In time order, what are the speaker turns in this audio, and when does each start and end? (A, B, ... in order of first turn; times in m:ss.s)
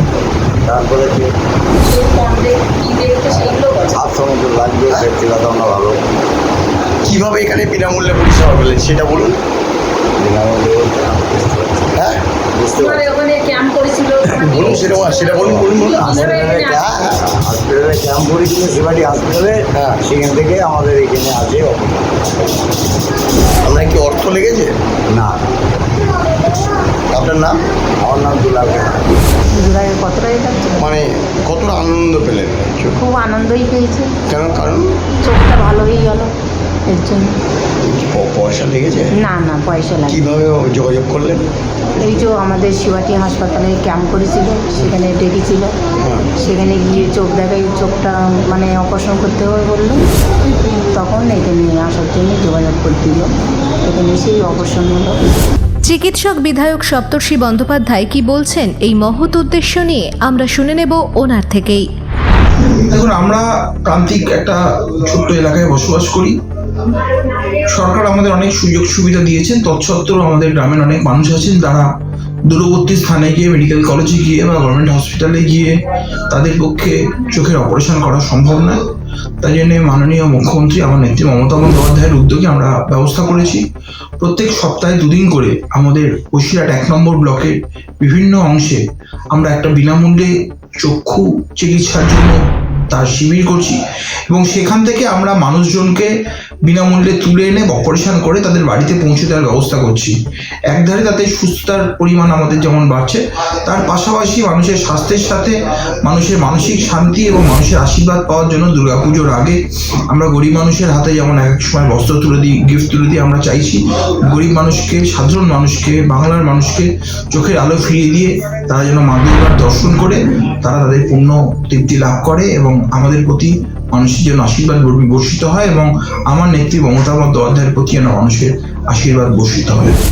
0:00.6-0:01.3 A
0:01.8-0:04.0 B
0:03.3-0:06.1 A
0:07.0-0:09.3 C
0:10.2-0:12.0 A
0:12.5-0:13.1 A
0:12.9-0:16.9 B
0:14.2-0:17.1 C
0:14.5-0:22.2 A
0:23.6-0:24.7 C
0:25.1-0:25.4 A
0:27.1-0:27.6 C
0:28.0-0:29.1 A
0:29.5-0:30.9 D
0:30.8-0:33.0 C
0:33.0-0:34.1 D
0:34.3-0:34.8 C
0:35.2-0:36.3 D
0:36.9-0:37.4 D
0:37.8-0:39.1 C
0:39.2-0:40.2 D
0:40.1-0:41.4 C
0:42.0-0:45.7 D
0:46.0-0:46.3 C
0:46.4-0:50.0 D
0:50.9-0:53.3 D
0:53.8-0:55.2 D
0:55.8-1:01.8 E
1:02.6-1:11.9 F
1:12.5-1:15.7 F
1:16.3-1:18.8 F
1:19.4-1:23.6 F
1:24.2-1:32.4 F
1:32.9-1:33.8 F
1:34.3-1:36.1 F
1:36.6-1:40.1 F
1:40.7-1:49.6 F
1:50.1-2:09.9 F